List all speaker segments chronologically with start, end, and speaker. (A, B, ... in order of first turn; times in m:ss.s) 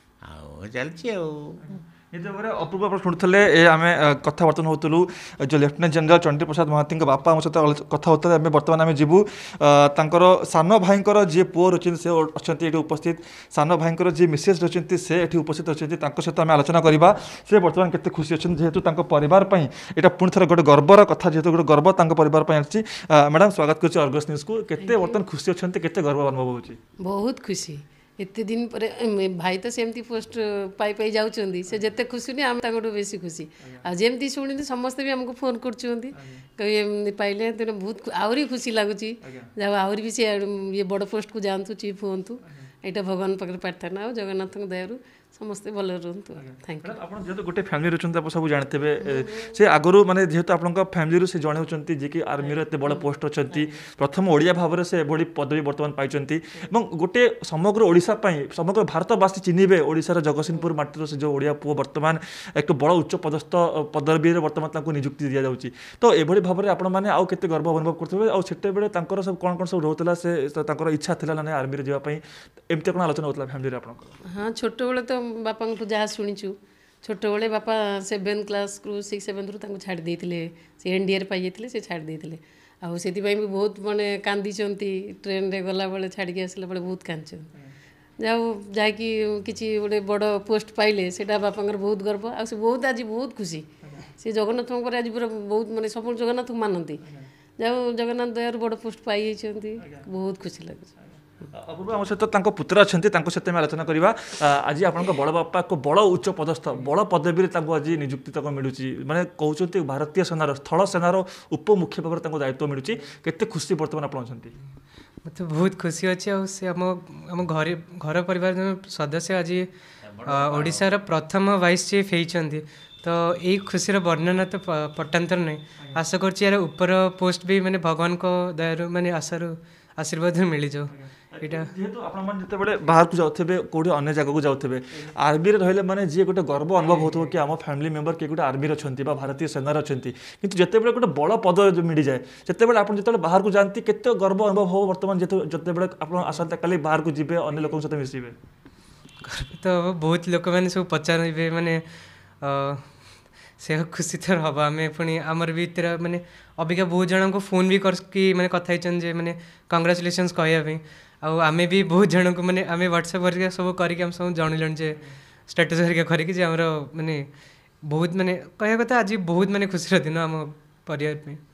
0:00.2-0:01.6 A
0:01.6-0:26.8 B
0:24.8-0:25.2 C
0:27.0-0:47.0 C
0:36.2-0:36.4 B
0:39.2-0:39.5 B
0:46.4-1:14.2 B
0:49.0-0:49.5 C
0:52.4-0:53.8 C
1:14.3-1:27.5 C
1:28.2-1:37.0 C
1:37.6-1:40.9 C
1:41.5-1:54.5 B
1:55.2-2:11.7 D
2:00.0-2:00.9 A
2:10.9-2:28.4 B
2:16.9-2:17.1 D
2:29.2-2:31.8 D
2:32.4-2:51.4 D